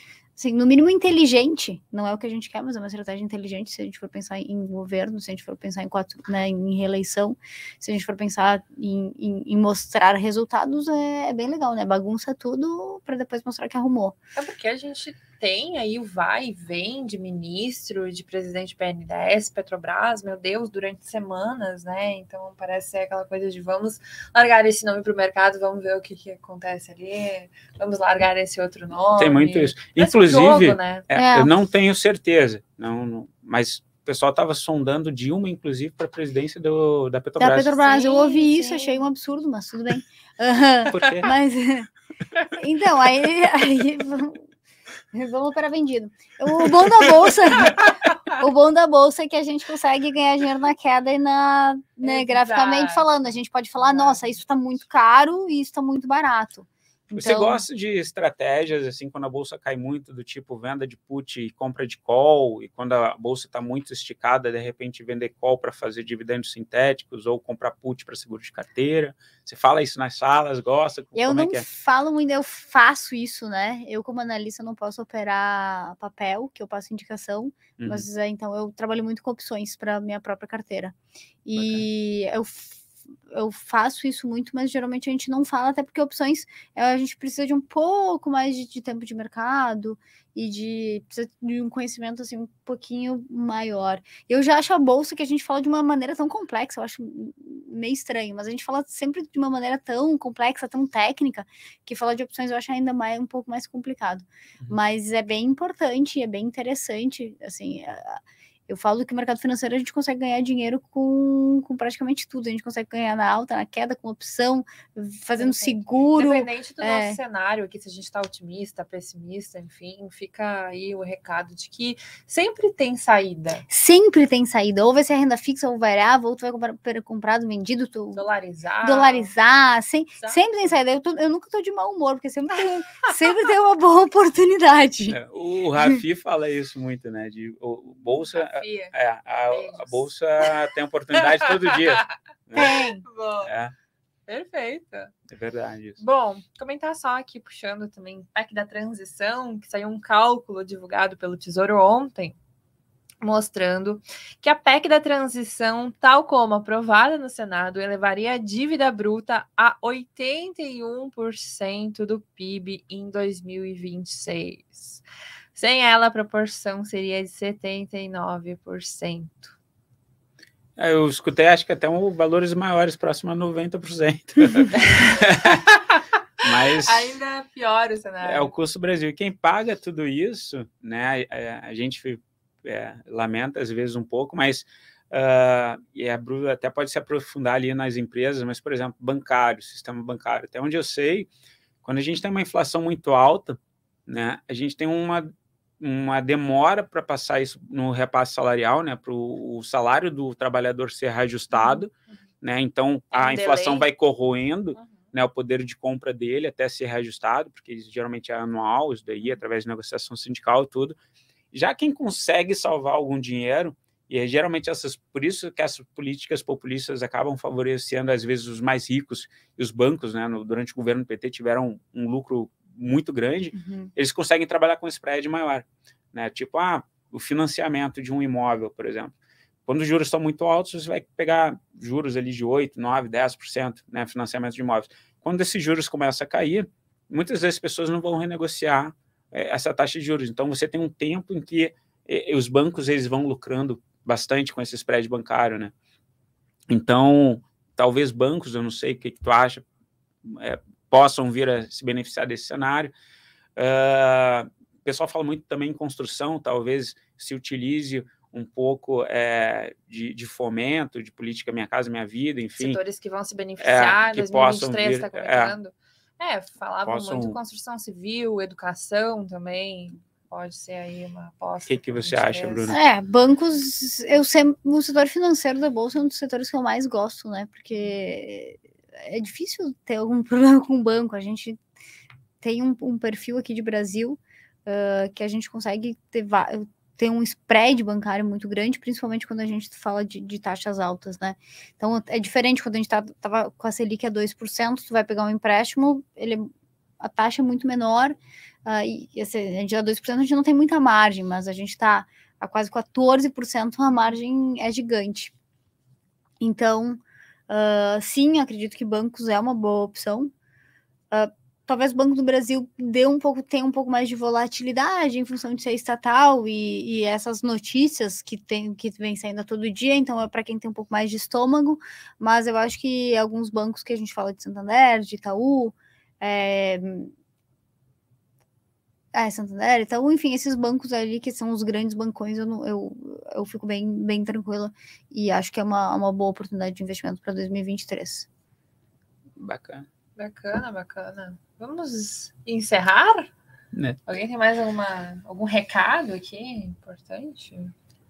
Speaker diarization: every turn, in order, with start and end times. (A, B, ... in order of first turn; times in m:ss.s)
0:00.4-0:14.2 A
0:14.4-0:31.0 B
0:29.2-0:38.0 C
0:31.1-0:31.5 A
0:37.4-0:41.9 A
0:37.8-0:39.0 B
0:40.9-0:41.3 C
0:42.6-0:44.5 A
0:45.1-0:57.6 A
0:47.7-0:48.1 B
0:52.0-0:53.1 B
0:53.8-0:54.4 B
0:57.1-1:11.6 C
1:11.1-1:57.2 A
1:17.8-1:18.1 C
1:21.6-1:21.8 C
1:55.3-2:03.6 B
2:03.7-2:08.2 A
2:08.1-2:09.3 B
2:08.8-2:15.2 A
2:10.2-2:10.8 B
2:15.1-2:22.8 C
2:18.2-2:18.9 B
2:19.5-2:20.0 B
2:21.1-2:23.5 B
2:22.6-2:23.0 A
2:23.4-2:23.7 C
2:24.3-2:25.1 B
2:25.3-2:26.0 C
2:26.0-2:32.4 B
2:33.2-2:45.0 B
2:45.5-2:49.5 B
2:50.8-2:55.8 C
2:54.8-2:56.0 B
2:56.4-2:57.1 C
2:56.6-2:58.5 B
2:58.2-3:11.3 C
3:11.8-3:31.0 C
3:23.1-3:23.9 B
3:24.7-3:25.1 B
3:31.5-3:49.1 C
3:43.5-3:43.9 A
3:49.6-4:05.7 C
4:06.7-4:09.6 C
4:10.2-4:12.9 C
4:13.6-4:22.8 C
4:22.6-4:32.8 B
4:23.6-4:25.6 C
4:26.8-4:27.4 C
4:31.7-4:32.8 C
4:32.7-4:41.6 A
4:42.4-5:05.3 A
5:06.4-5:10.3 A
5:11.1-5:27.1 A
5:29.1-5:38.3 A
5:39.4-5:39.8 C
5:40.2-5:43.3 B
5:43.7-5:44.0 C
5:44.1-5:47.7 B